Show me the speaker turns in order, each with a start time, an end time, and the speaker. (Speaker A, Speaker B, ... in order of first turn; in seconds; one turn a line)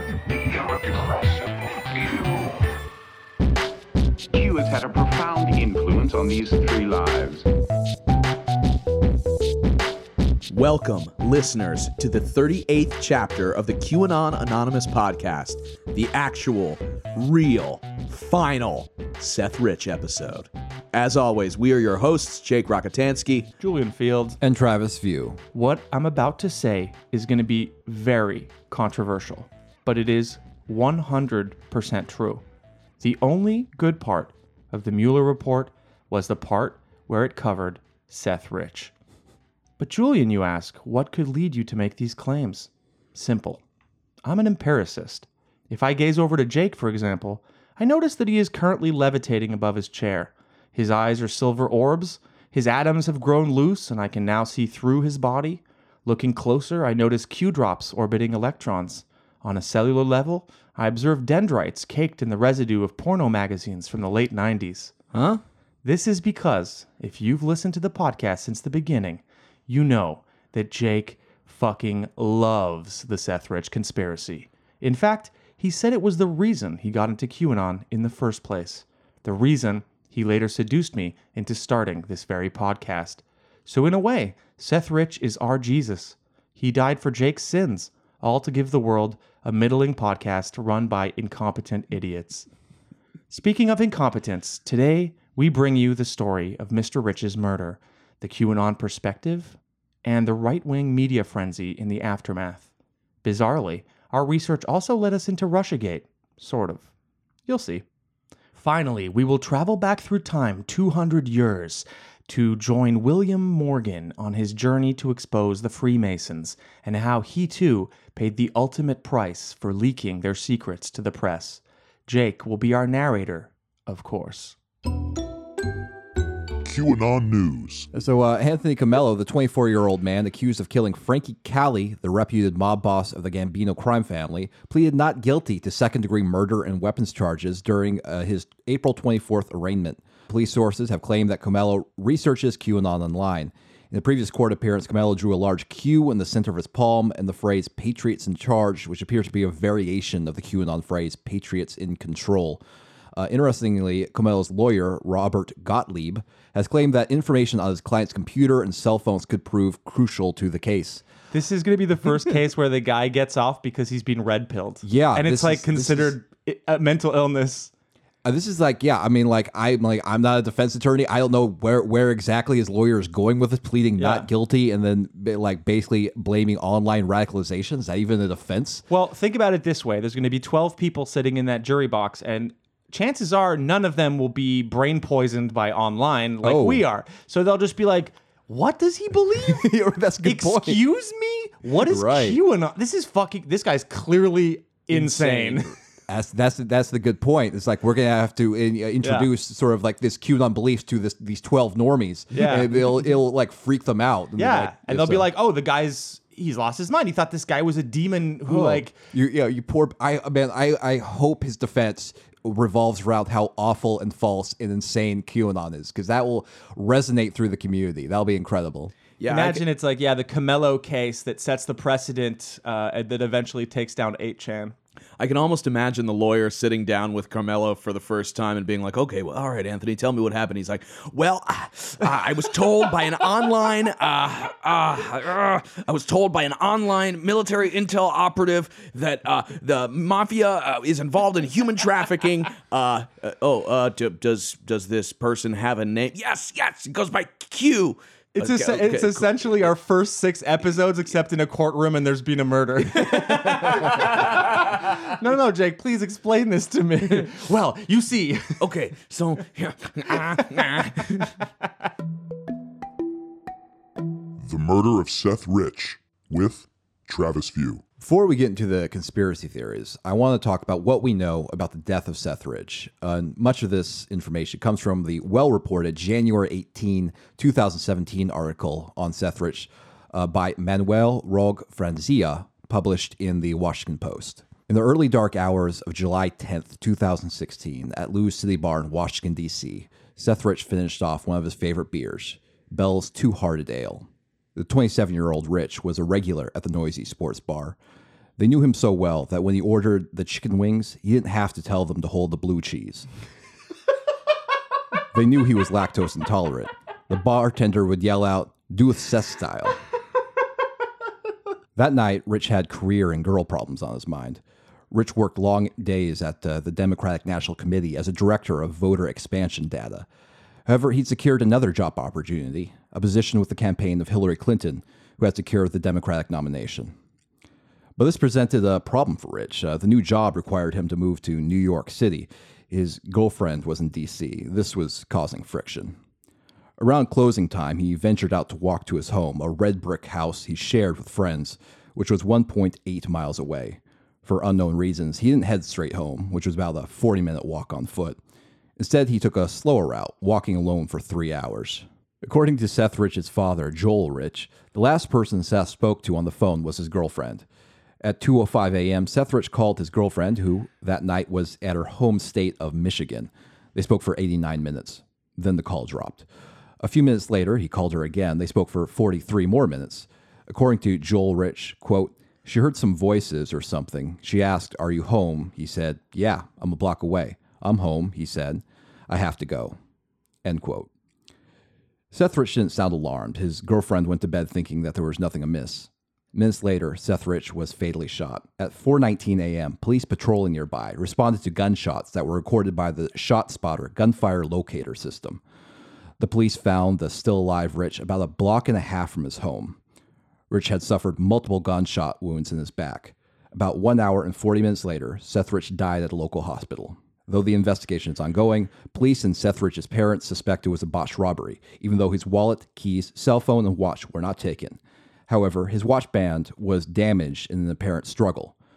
Speaker A: 0.2-2.6
Speaker A: 4.3-7.5
Speaker B: 10.5-23.5
Speaker C: 23.6-24.4
Speaker D: 24.4-25.4
Speaker C: 25.5-32.4
Speaker C: 33.0-38.9
Speaker C: 39.8-43.6
Speaker C: 44.2-64.9
Speaker B: 65.1-65.4
Speaker C: 65.8-92.5
Speaker C: 93.3-102.7
Speaker C: 103.2-106.9
Speaker C: 107.5-107.8
Speaker C: 108.6-124.6
Speaker E: 126.6-127.9
Speaker D: 127.9-152.6
Speaker D: 153.2-161.0
Speaker C: 161.3-167.7
Speaker D: 164.8-166.2
Speaker D: 168.2-178.8
Speaker C: 174.0-174.3
Speaker C: 178.9-195.7
Speaker D: 186.4-186.8
Speaker D: 189.4-190.8
Speaker D: 191.8-192.4
Speaker B: 194.9-195.6
Speaker D: 196.1-205.3
Speaker C: 199.0-199.3
Speaker C: 202.3-202.8
Speaker C: 204.4-208.9
Speaker D: 208.5-218.9
Speaker B: 219.2-219.6
Speaker C: 219.3-224.8
Speaker B: 225.2-249.3
Speaker C: 248.4-258.6
Speaker B: 253.0-253.9
Speaker B: 258.6-261.3
Speaker E: 264.4-267.8
Speaker D: 268.0-297.8
Speaker D: 298.4-303.1
Speaker D: 305.1-309.8
Speaker D: 311.8-320.1
Speaker D: 320.6-326.9
Speaker D: 328.0-335.9
Speaker D: 336.8-348.2
Speaker D: 348.8-357.4
Speaker D: 358.0-366.2
Speaker D: 366.8-379.8
Speaker D: 380.4-380.9
Speaker D: 382.1-395.4
Speaker D: 396.2-399.8
Speaker D: 400.5-418.5